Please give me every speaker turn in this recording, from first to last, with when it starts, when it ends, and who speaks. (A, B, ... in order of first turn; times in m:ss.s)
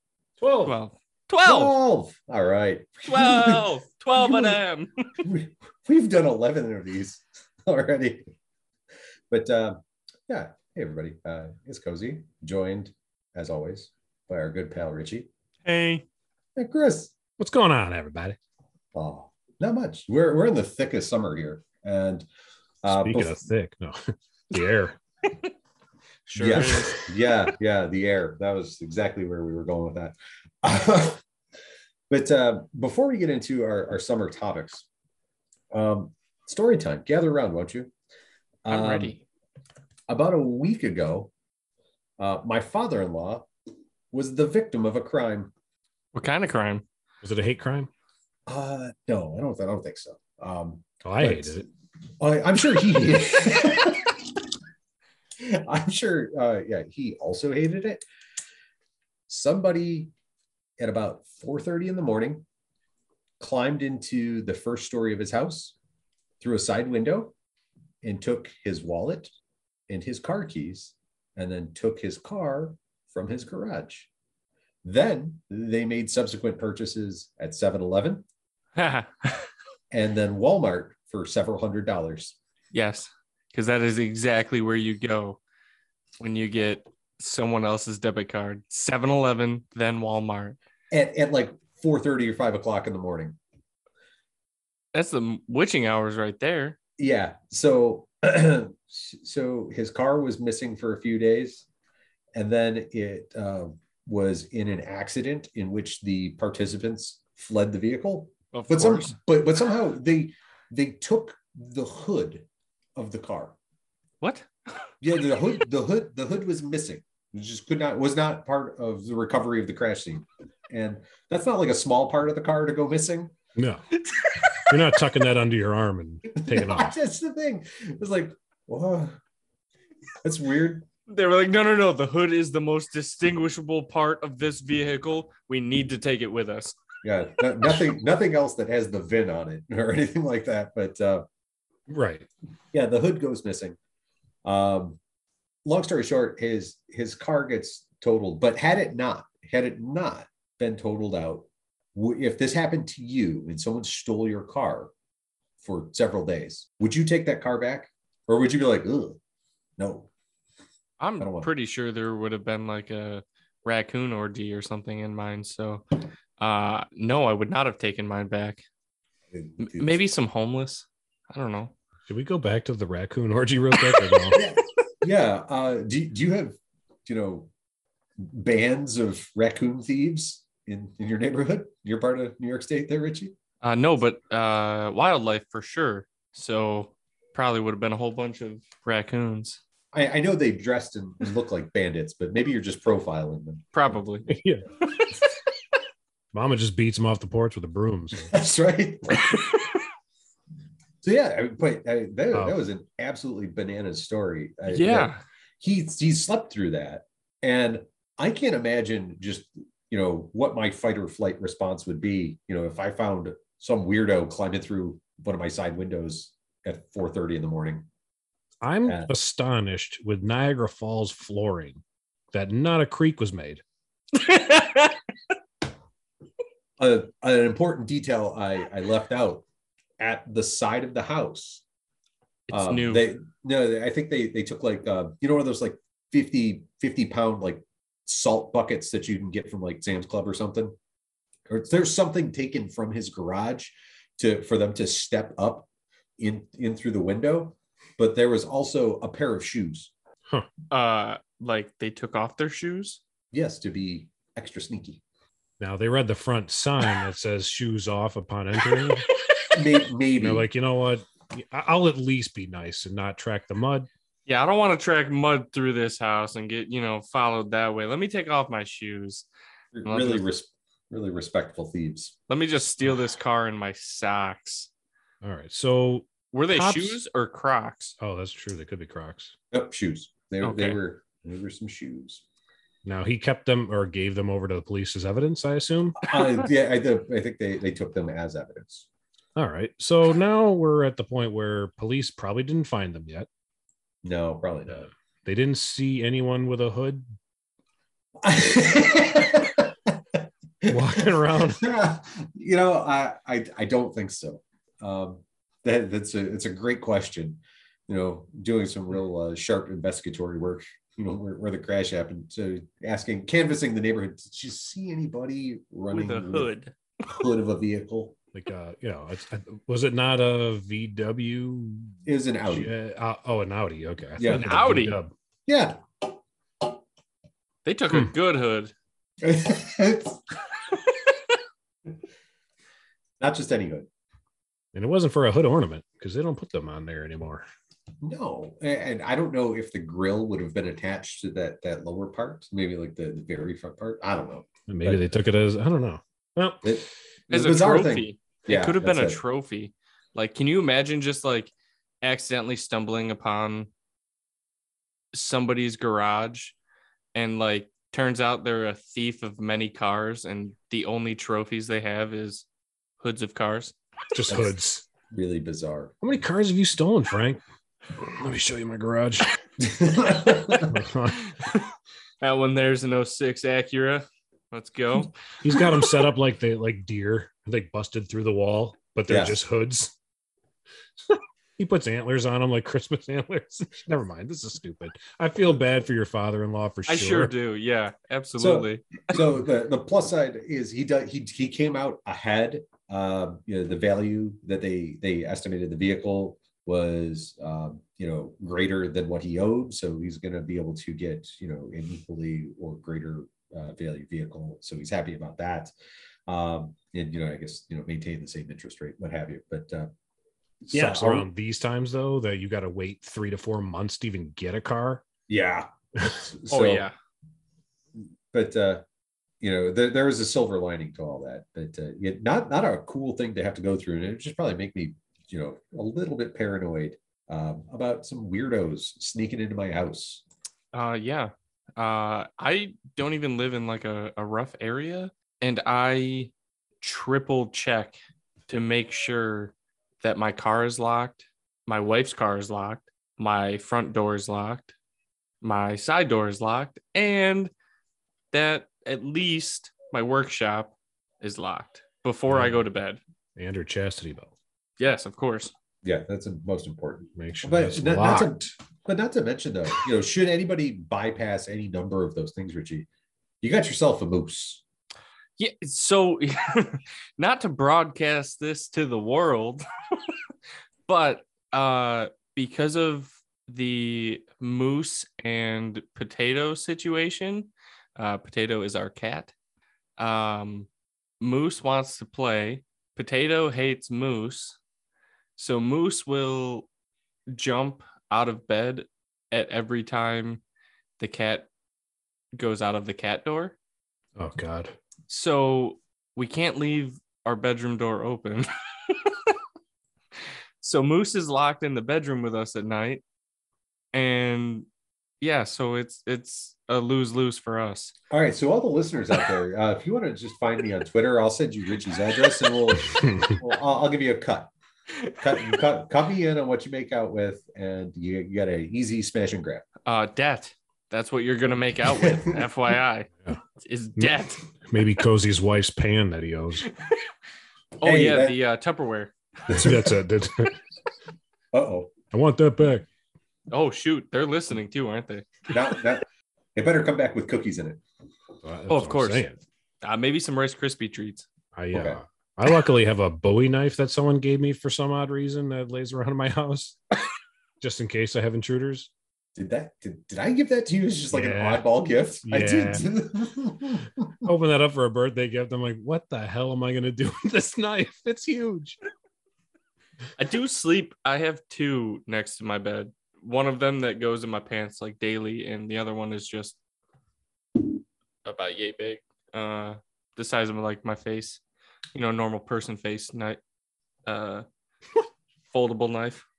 0:00.4-0:00.8 A
0:00.6-0:01.8 B
0:01.4-0:04.6 C
0:03.1-0:05.1 B
0:05.2-0:08.3 C
0:09.3-0:15.3 C
0:15.6-0:16.0 B
0:16.6-0:17.1 C
0:17.4-0:18.4 A
0:18.9-0:22.3 C
0:22.8-0:23.4 C
0:22.9-0:25.0 A
0:26.3-0:27.0 B
0:26.4-0:31.2 C
0:26.4-0:27.0 A
0:32.1-0:34.8 C
0:35.7-0:37.9 C
0:38.6-0:39.2 C
0:38.7-0:39.2 B
0:40.1-0:41.3 C
0:42.2-0:43.5 C
0:44.1-0:45.5 C
0:46.1-0:46.8 B
0:47.2-0:47.9 A
0:48.5-0:51.6 C
0:51.0-0:51.7 A
0:52.2-0:54.2 C
0:55.4-0:58.0 C
0:59.3-1:00.1 C
1:00.8-1:02.4 C
1:03.4-1:05.8 C
1:06.4-1:07.3 C
1:08.0-1:09.3 C
1:09.9-1:14.1 C
1:14.8-1:18.2 C
1:18.8-1:19.4 B
1:19.9-1:22.4 C
1:22.7-1:25.4 B
1:26.2-1:30.6 B
1:30.9-1:33.4 C
1:34.9-1:36.8 B
1:37.0-1:41.7 C
1:42.4-1:53.6 C
1:48.5-1:49.2 B
1:54.2-1:54.9 B
1:55.0-2:03.3 C
2:03.6-2:03.8 A
2:04.0-2:04.9 B
2:04.6-2:06.9 A
2:06.4-2:09.2 C
2:10.2-2:10.9 C
2:11.1-2:16.8 B
2:17.0-2:21.2 C
2:21.9-2:22.3 A
2:22.7-2:23.8 C
2:24.4-2:25.0 C
2:25.6-2:34.9 C
2:35.6-2:39.2 C
2:39.8-2:40.1 C
2:41.0-2:45.8 B
2:41.2-2:41.5 C
2:46.4-2:48.6 B
2:49.3-2:50.0 C
2:49.6-2:51.7 B
2:52.1-2:54.4 A
2:53.8-2:54.4 B
2:54.3-2:57.5 C
2:58.2-3:03.4 C
3:03.6-3:09.6 B
3:09.9-3:13.9 C
3:13.7-3:14.3 B
3:14.3-3:14.7 A
3:14.8-3:15.3 B
3:16.3-3:18.3 A
3:18.3-3:19.3 C
3:19.3-3:19.7 B
3:21.0-3:37.9 C
3:24.7-3:25.2 B
3:38.6-3:41.8 A
3:42.3-3:43.6 A
3:44.1-3:45.0 B
3:46.8-3:49.4 C
3:50.0-3:51.6 C
3:52.5-3:53.1 B
3:52.5-4:00.8 C
4:01.5-4:05.7 C
4:06.2-4:09.9 C
4:10.7-4:13.0 B
4:13.3-4:15.0 C
4:15.6-4:19.1 A
4:18.6-4:19.5 B
4:19.5-4:20.5 C
4:20.2-4:23.9 A
4:24.3-4:29.3 B
4:29.7-4:32.2 C
4:29.9-4:30.2 B
4:32.3-4:34.7 B
4:35.2-4:37.0 A
4:36.3-4:38.0 B
4:38.0-4:39.3 A
4:39.5-4:42.2 C
4:40.4-4:40.8 B
4:42.8-4:46.1 A
4:46.1-4:48.9 C
4:49.4-4:53.3 A
4:54.0-4:54.9 C
4:54.7-4:57.0 A
4:58.2-5:00.0 C
5:00.6-5:16.5 C
5:00.7-5:01.6 A
5:15.9-5:17.2 B
5:17.1-5:18.2 C
5:18.3-5:25.1 A
5:22.1-5:22.7 C
5:24.2-5:24.5 C
5:24.3-5:25.0 B
5:25.5-5:26.1 C
5:27.6-5:28.7 B
5:29.2-5:30.2 C
5:30.7-5:31.3 B
5:33.2-5:33.9 C
5:34.7-5:37.4 A
5:38.0-5:45.0 C
5:44.7-5:46.8 A
5:46.6-5:49.2 C
5:47.3-5:53.7 B
5:55.1-5:56.6 B
5:57.2-6:02.5 B
6:03.0-6:03.8 B
6:04.1-6:04.9 A
6:04.3-6:04.5 C
6:05.1-6:05.9 C
6:06.0-6:07.4 A
6:08.0-6:09.3 A
6:09.6-6:10.8 C
6:10.6-6:11.4 A
6:11.3-6:11.7 B
6:12.2-6:15.8 B
6:15.4-6:19.9 A
6:19.1-6:19.4 C
6:21.1-6:27.3 A
6:26.9-6:29.2 B
6:28.4-6:45.7 C
6:46.3-6:49.9 C
6:50.6-6:51.3 C
6:50.7-6:55.0 A
6:55.3-6:56.9 C
6:56.5-6:57.0 B
6:58.3-6:58.8 C
6:59.4-7:10.2 C
7:10.7-7:18.0 B
7:18.5-7:24.7 B
7:25.4-7:27.5 B
7:28.3-7:33.0 B
7:32.3-7:32.6 A
7:33.4-7:34.3 A
7:34.8-7:35.5 B
7:35.8-7:42.9 C
7:37.2-7:38.4 A
7:43.4-7:44.6 C
7:45.4-7:50.2 B
7:50.9-7:59.3 B
8:00.0-8:00.7 B
8:01.2-8:04.6 B
8:05.4-8:06.7 B
8:07.3-8:10.4 B
8:11.0-8:11.5 B
8:12.4-8:13.6 B
8:14.2-8:14.8 A
8:15.1-8:19.3 B
8:20.6-8:23.0 B
8:23.9-8:24.7 B
8:25.2-8:28.0 B
8:28.1-8:34.5 C
8:33.0-8:33.4 A
8:35.2-8:39.7 C
8:39.9-8:44.4 B
8:42.0-8:42.4 C
8:44.0-8:46.7 A
8:46.7-8:47.1 B
8:47.8-8:49.1 B
8:47.8-8:48.4 C
8:49.5-8:50.0 C
8:49.5-8:50.6 A
8:51.5-8:51.9 C
8:52.1-8:52.9 A
8:53.5-8:55.7 B
8:55.5-8:57.8 C
8:58.4-8:59.4 A
8:58.7-8:59.2 B
8:59.8-9:01.3 B
9:01.6-9:06.8 A
9:01.7-9:02.0 C
9:07.6-9:08.9 A
9:09.4-9:14.3 C
9:11.1-9:11.6 A
9:12.2-9:12.8 A
9:14.2-9:18.8 A
9:20.2-9:26.6 B
9:28.2-9:31.4 B
9:32.0-9:33.4 B
9:34.1-9:34.5 B
9:35.5-9:36.2 B